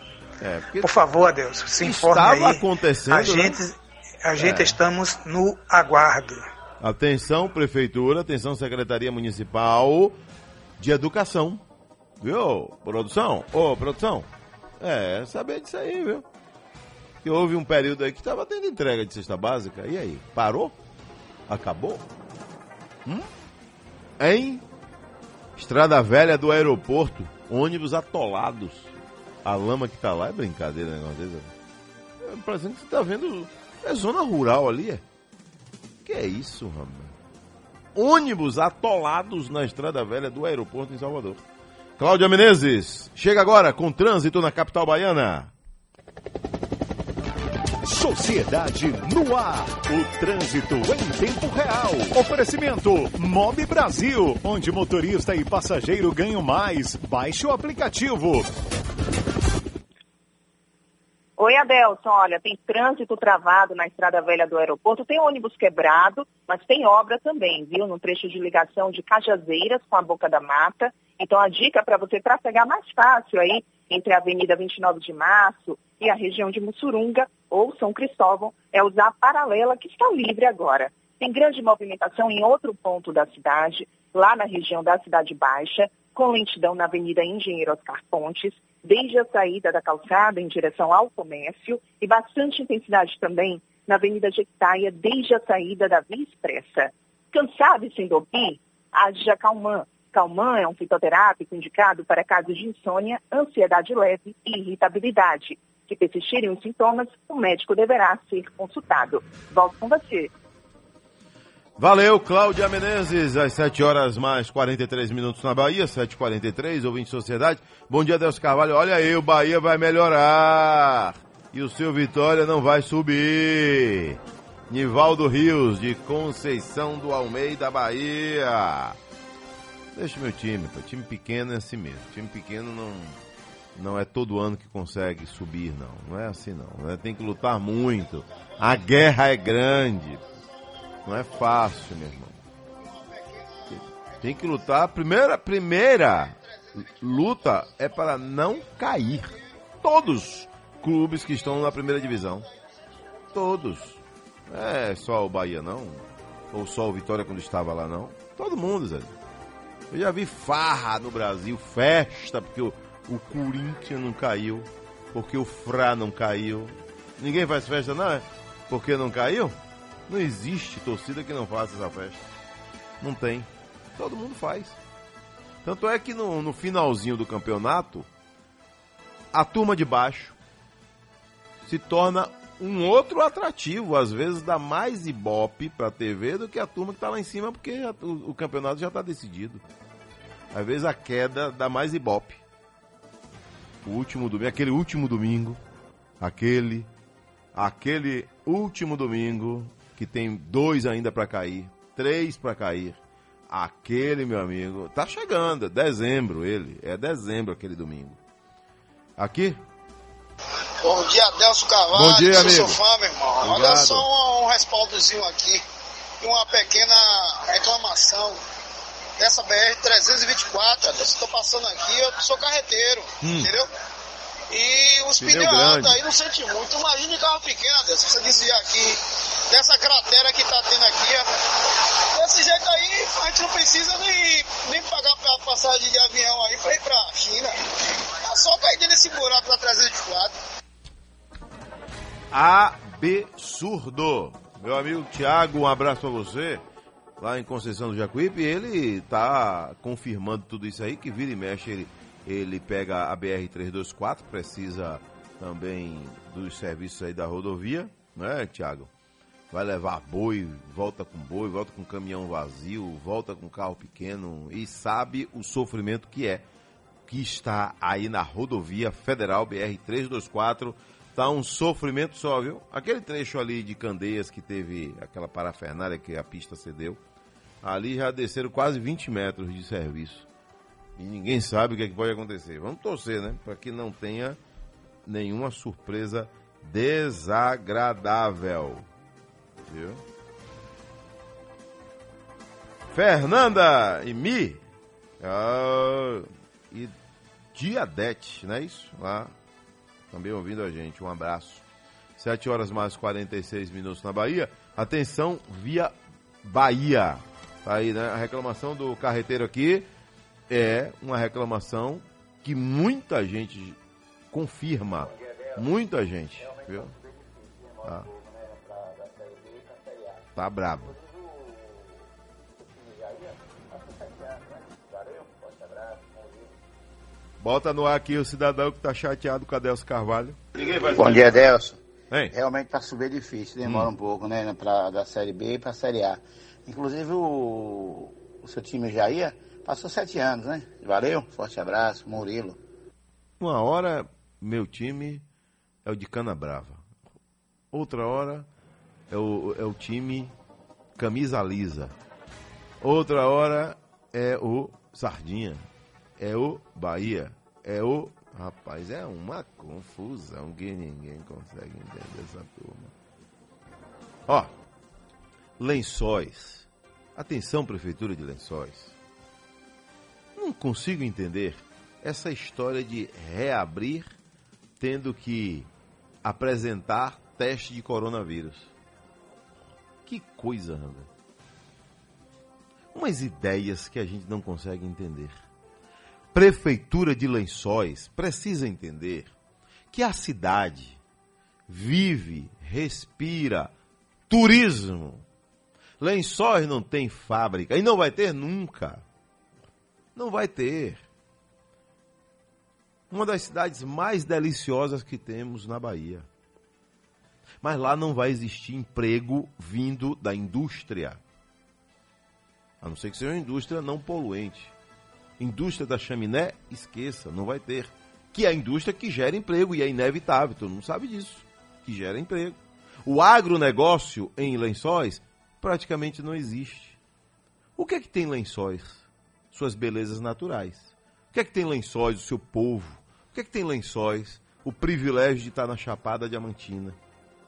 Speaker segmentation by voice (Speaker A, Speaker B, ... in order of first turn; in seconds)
Speaker A: 0.4-1.0, 1.8-3.6, 4.4-4.8, 6.8-10.2, 10.8-11.6, 12.2-14.3, 14.8-16.2, 17.2-20.7, 21.5-22.0, 24.2-24.6, 25.6-31.5, 32.2-35.0, 36.0-37.1, 38.0-41.4, 42.0-45.5, 111.8-124.2, 124.7-129.0, 129.9-133.2, 133.8-140.2, 141.1-142.4, 143.7-152.4, 153.3-159.1, 159.9-169.6, 170.1-172.2, 173.0-174.8, 175.6-178.1, 179.3-180.3, 181.7-189.6, 190.5-192.4, 193.8-195.6, 196.2-196.9, 197.6-203.0, 203.5-208.2, 209.2-209.6, 211.9-212.8, 213.4-214.1, 223.2-223.5, 225.2-226.0, 242.3-246.6, 247.2-258.9, 259.5-266.4, 267.1-277.0, 277.6-280.3, 281.0-284.4, 285.1-288.9, 289.6-290.0, 292.9-294.6, 295.2-296.9, 297.5-299.3, 300.1-301.6, 302.2-309.9, 310.5-313.8, 314.3-316.9, 320.4-320.9, 327.4-331.4, 333.6-333.9, 343.4-345.2, 345.9-346.9, 347.7-348.5, 349.1-350.3, 351.0-351.9, 352.8-355.6, 356.2-362.9, 365.6-368.9, 370.4-374.1, 374.8-375.7, 376.2-378.7, 380.1-381.1, 382.9-385.4, 386.3-389.3, 389.9-391.0, 391.7-393.7, 394.3-395.2, 396.0-399.0, 400.2-401.0, 403.1-406.3, 407.6-411.2, 412.8-414.7, 415.4-427.0, 427.8-437.0
Speaker B: 0.8-6.5
Speaker C: 47.9-58.5
Speaker D: 61.4-110.3
Speaker E: 210.8-215.6, 216.2-218.4, 219.2-223.7, 224.5-231.3, 232.1-237.5, 238.1-240.3
Speaker F: 331.0-331.8, 332.3-342.6